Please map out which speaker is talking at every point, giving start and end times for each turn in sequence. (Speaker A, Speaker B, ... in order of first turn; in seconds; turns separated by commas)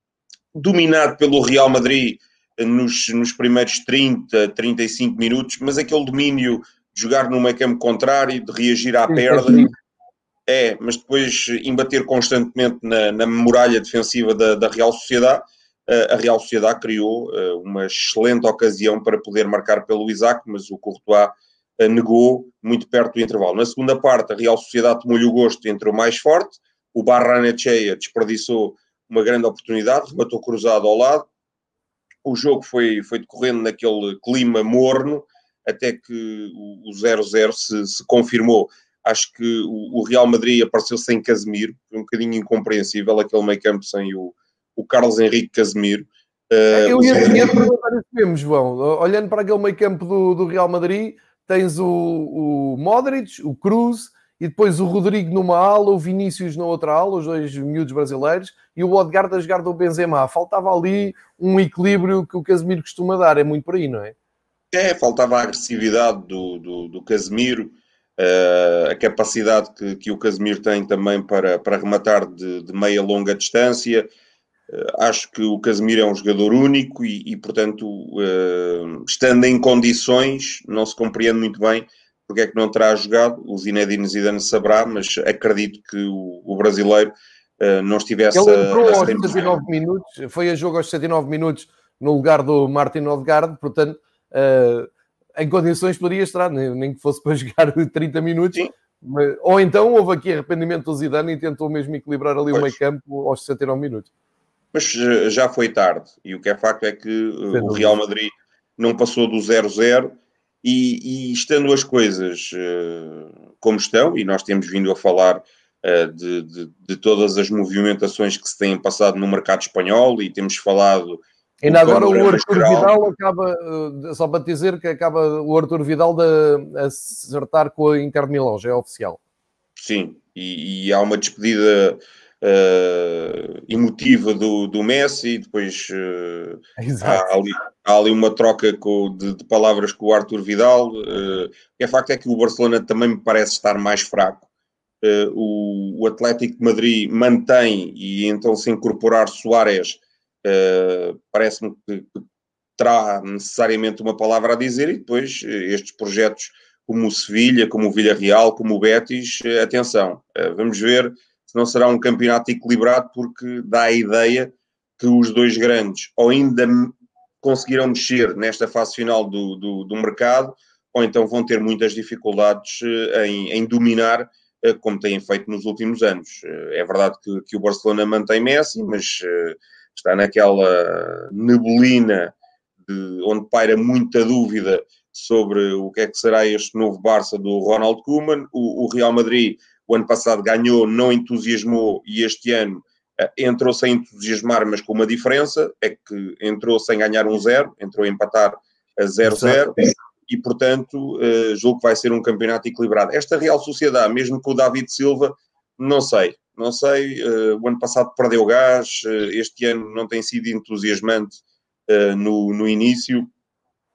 Speaker A: 0.5-9.7, Speaker B: 9.1-9.7, Speaker A: 10.5-31.2, Speaker A: 32.2-47.5, Speaker B: 46.7-64.1, Speaker A: 64.7-74.1, Speaker A: 74.7-89.5, Speaker B: 88.3-104.1, Speaker A: 104.7-122.9, Speaker B: 107.5-108.0, Speaker B: 121.6-129.2, Speaker A: 129.8-144.5, Speaker B: 136.8-137.2, Speaker A: 145.0-152.2, Speaker A: 152.8-182.3, Speaker A: 182.8-199.8, Speaker B: 199.2-199.6, Speaker A: 200.3-213.3